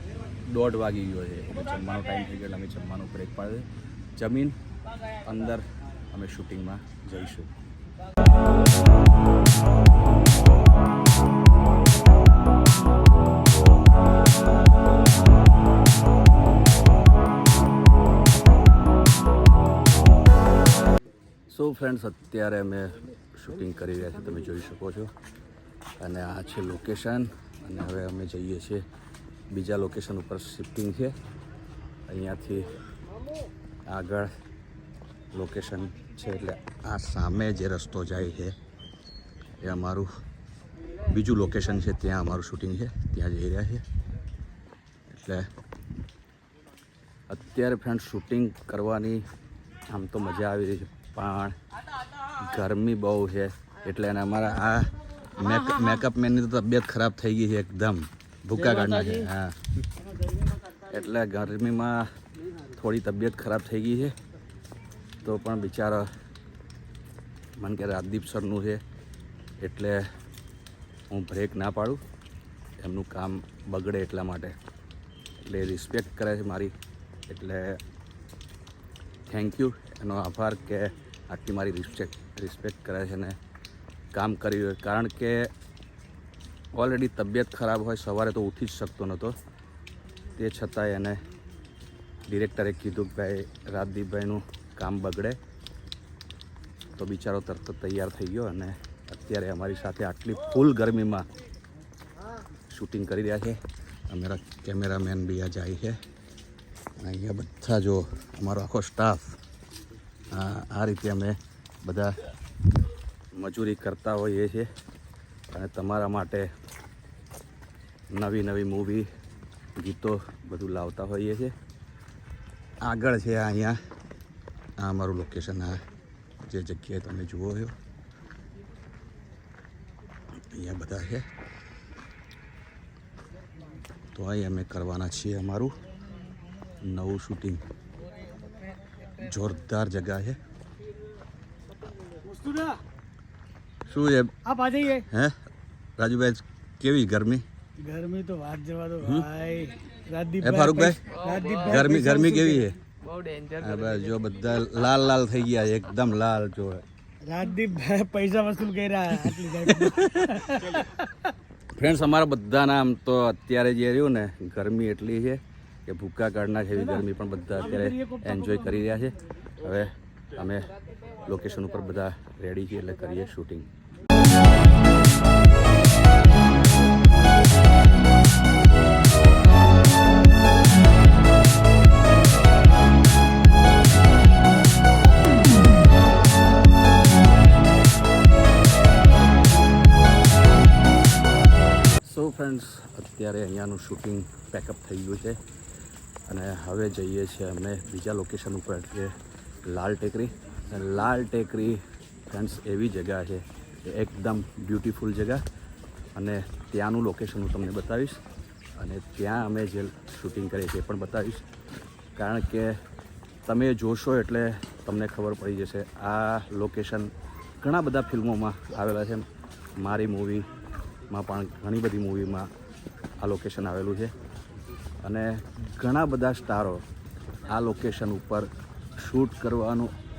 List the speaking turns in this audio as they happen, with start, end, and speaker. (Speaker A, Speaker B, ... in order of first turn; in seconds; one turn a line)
Speaker A: 0.4-4.6
Speaker A: 5.1-7.5
Speaker A: 21.5-25.1
Speaker A: 26.0-28.8
Speaker A: 29.5-31.2
Speaker A: 32.1-32.7
Speaker A: 33.9-34.3
Speaker A: 35.3-38.5
Speaker A: 39.6-40.1
Speaker A: 41.1-43.8
Speaker A: 45.1-45.5
Speaker A: 47.3-49.2
Speaker A: 49.9-51.5
Speaker A: 52.2-59.6
Speaker B: 58.8-59.1
Speaker A: 60.7-62.1
Speaker A: 62.7-64.2
Speaker A: 65.2-66.1
Speaker A: 67.6-68.8
Speaker A: 69.6-70.0
Speaker A: 71.1-72.0
Speaker A: 72.8-74.5
Speaker A: 75.4-76.7
Speaker A: 77.3-77.8
Speaker A: 79.3-83.4
Speaker A: 84.1-85.5
Speaker A: 86.7-89.3
Speaker A: 90.3-91.2
Speaker A: 92.2-95.4
Speaker A: 97.0-101.2
Speaker A: 102.7-106.0
Speaker A: 107.0-109.4
Speaker A: 110.3-112.2
Speaker A: 113.3-114.7
Speaker A: 115.5-116.5
Speaker A: 118.1-119.1
Speaker A: 119.8-121.5
Speaker A: 122.8-123.8
Speaker A: 124.8-125.8
Speaker A: 126.4-127.8
Speaker A: 130.4-131.3
Speaker A: 134.1-135.8
Speaker A: 136.8-137.6
Speaker A: 139.1-140.4
Speaker C: 142.2-142.8
Speaker A: 143.8-144.4
Speaker C: 144.4-145.1
Speaker A: 145.0-145.3
Speaker A: 146.0-147.4
Speaker C: 147.8-152.7
Speaker A: 149.0-149.3
Speaker A: 150.4-151.1
Speaker B: 151.1-151.8
Speaker A: 151.6-152.8
Speaker B: 152.8-154.1
Speaker A: 153.6-156.8
Speaker C: 157.2-161.2
Speaker A: 159.2-160.5
Speaker A: 161.7-173.7
Speaker C: 166.7-167.0
Speaker C: 167.6-168.8
Speaker A: 192.0-195.4
Speaker A: 196.3-199.1
Speaker A: 199.7-205.4
Speaker A: 206.1-208.2
Speaker A: 208.8-211.4
Speaker A: 212.2-212.8
Speaker A: 213.4-219.2
Speaker A: 219.8-220.5
Speaker A: 221.1-222.5
Speaker A: 223.2-224.1
Speaker A: 225.0-226.8
Speaker A: 227.4-229.9